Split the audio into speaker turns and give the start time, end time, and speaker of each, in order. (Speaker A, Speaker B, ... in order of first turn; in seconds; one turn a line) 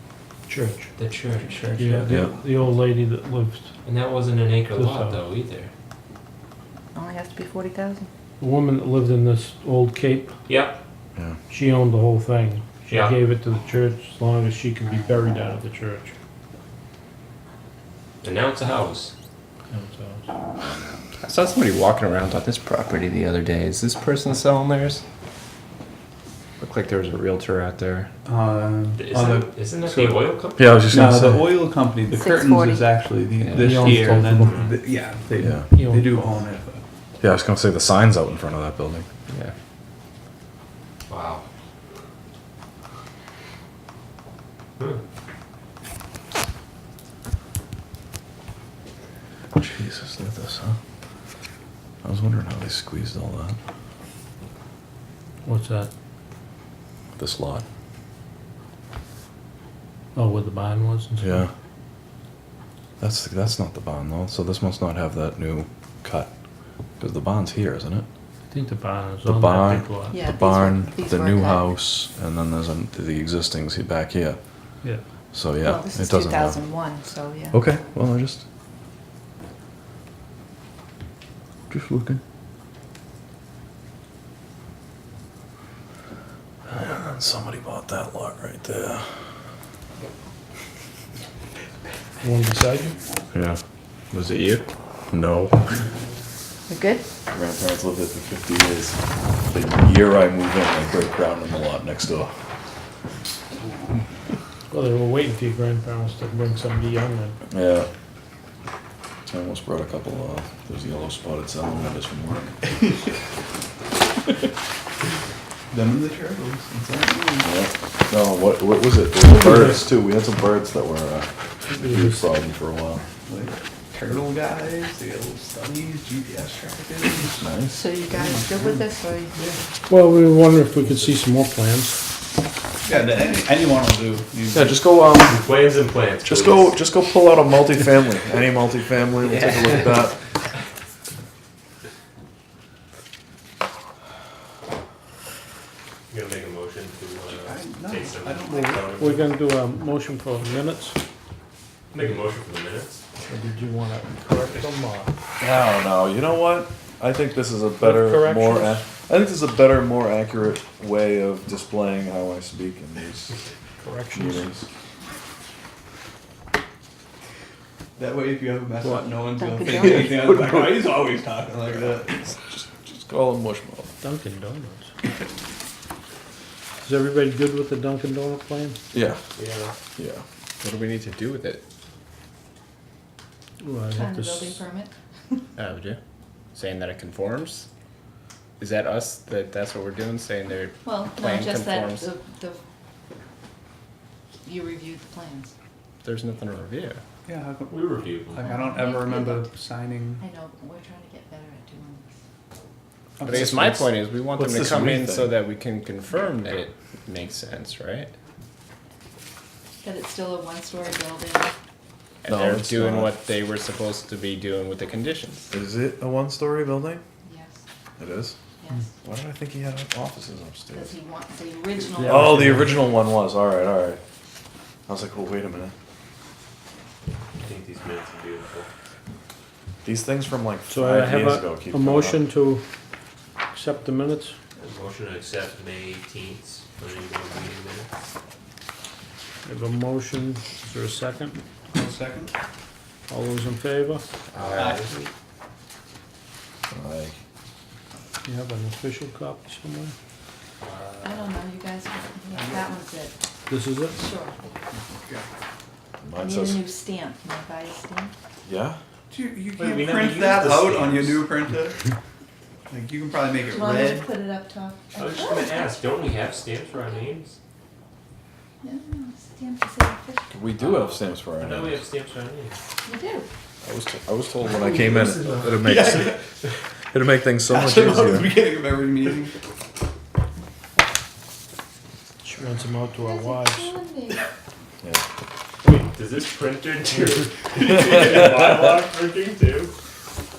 Speaker A: 0.5-0.9
Speaker B: 0.9-1.9
Speaker A: 1.8-3.7
Speaker B: 3.8-5.7
Speaker A: 4.7-5.2
Speaker C: 6.9-8.1
Speaker A: 8.4-10.3
Speaker B: 10.5-10.8
Speaker A: 11.5-16.1
Speaker B: 12.9-13.2
Speaker B: 18.2-19.1
Speaker A: 19.7-20.3
Speaker D: 21.3-25.0
Speaker D: 26.6-28.1
Speaker E: 28.2-30.3
Speaker B: 28.9-30.8
Speaker F: 30.6-31.6
Speaker E: 30.9-36.8
Speaker C: 32.1-33.0
Speaker A: 33.6-34.7
Speaker B: 34.4-34.7
Speaker F: 35.4-35.6
Speaker A: 35.7-36.3
Speaker F: 37.2-39.1
Speaker B: 41.1-41.4
Speaker F: 49.5-50.8
Speaker F: 52.0-53.6
Speaker A: 55.4-55.9
Speaker F: 57.2-57.6
Speaker A: 60.1-61.4
Speaker F: 61.2-61.5
Speaker F: 63.0-66.3
Speaker F: 67.0-68.0
Speaker A: 68.5-70.2
Speaker F: 69.2-74.4
Speaker C: 70.1-71.8
Speaker F: 75.3-76.6
Speaker C: 75.6-77.6
Speaker F: 77.5-78.4
Speaker F: 81.7-82.2
Speaker F: 86.7-89.1
Speaker A: 92.2-93.0
Speaker F: 93.3-93.6
Speaker D: 94.2-94.6
Speaker F: 95.1-95.7
Speaker C: 96.7-97.0
Speaker F: 97.3-102.3
Speaker A: 104.7-107.4
Speaker F: 107.5-107.9
Speaker F: 109.3-112.5
Speaker E: 115.7-117.5
Speaker F: 117.4-123.0
Speaker A: 121.7-122.2
Speaker E: 123.2-127.5
Speaker F: 127.4-127.8
Speaker C: 127.7-129.3
Speaker E: 128.1-128.6
Speaker B: 129.3-129.6
Speaker A: 129.9-132.0
Speaker E: 132.8-134.8
Speaker F: 134.5-135.4
Speaker B: 135.2-136.8
Speaker F: 136.2-140.2
Speaker B: 146.1-149.3
Speaker E: 147.2-148.9
Speaker A: 148.5-151.0
Speaker B: 151.9-153.0
Speaker A: 153.3-155.1
Speaker F: 155.4-163.4
Speaker A: 157.8-158.8
Speaker A: 163.8-164.4
Speaker F: 164.1-164.7
Speaker E: 168.0-172.3
Speaker A: 168.8-169.2
Speaker C: 169.3-170.3
Speaker F: 169.9-170.9
Speaker F: 171.7-173.9
Speaker A: 174.0-174.9
Speaker A: 176.8-178.8
Speaker F: 178.9-179.2
Speaker B: 179.3-179.7
Speaker F: 179.9-180.2
Speaker D: 180.6-181.6
Speaker A: 183.6-184.6
Speaker C: 183.9-185.4
Speaker D: 185.6-186.0
Speaker D: 186.5-187.7
Speaker D: 188.6-192.0
Speaker C: 190.8-192.6
Speaker C: 194.4-195.5
Speaker D: 196.0-197.0
Speaker E: 197.2-200.2
Speaker B: 197.7-198.5
Speaker C: 198.4-199.5
Speaker C: 200.2-202.0
Speaker E: 203.2-204.0
Speaker D: 203.5-208.1
Speaker F: 204.3-205.3
Speaker C: 209.8-211.5
Speaker F: 212.2-213.2
Speaker D: 212.3-215.4
Speaker F: 215.5-217.0
Speaker C: 217.2-217.6
Speaker F: 218.0-218.3
Speaker C: 218.6-218.8
Speaker F: 219.0-220.9
Speaker C: 220.7-222.6
Speaker A: 222.0-222.8
Speaker F: 222.0-224.0
Speaker F: 224.9-225.7
Speaker B: 227.4-228.7
Speaker F: 229.8-232.2
Speaker A: 230.7-232.6
Speaker A: 233.5-234.3
Speaker B: 234.6-237.9
Speaker A: 239.4-241.4
Speaker E: 241.7-242.3
Speaker A: 243.1-244.0
Speaker B: 244.3-244.9
Speaker E: 244.4-245.1
Speaker F: 246.7-247.2
Speaker A: 248.2-249.9
Speaker B: 250.6-251.3
Speaker C: 251.0-253.2
Speaker E: 252.3-252.7
Speaker A: 253.5-254.0
Speaker C: 253.9-254.4
Speaker E: 254.9-255.2
Speaker F: 256.0-256.6
Speaker C: 256.2-258.1
Speaker F: 258.4-258.8
Speaker E: 259.1-261.8
Speaker B: 259.6-261.3
Speaker E: 262.7-264.1
Speaker C: 263.4-265.8
Speaker B: 264.9-267.4
Speaker C: 268.6-270.3
Speaker F: 270.3-271.8
Speaker B: 270.6-272.6
Speaker C: 272.8-273.3
Speaker F: 273.6-276.2
Speaker B: 274.4-275.8
Speaker E: 275.6-276.2
Speaker F: 276.9-278.3
Speaker E: 277.4-279.3
Speaker A: 282.2-283.7
Speaker C: 283.0-284.2
Speaker B: 285.6-289.7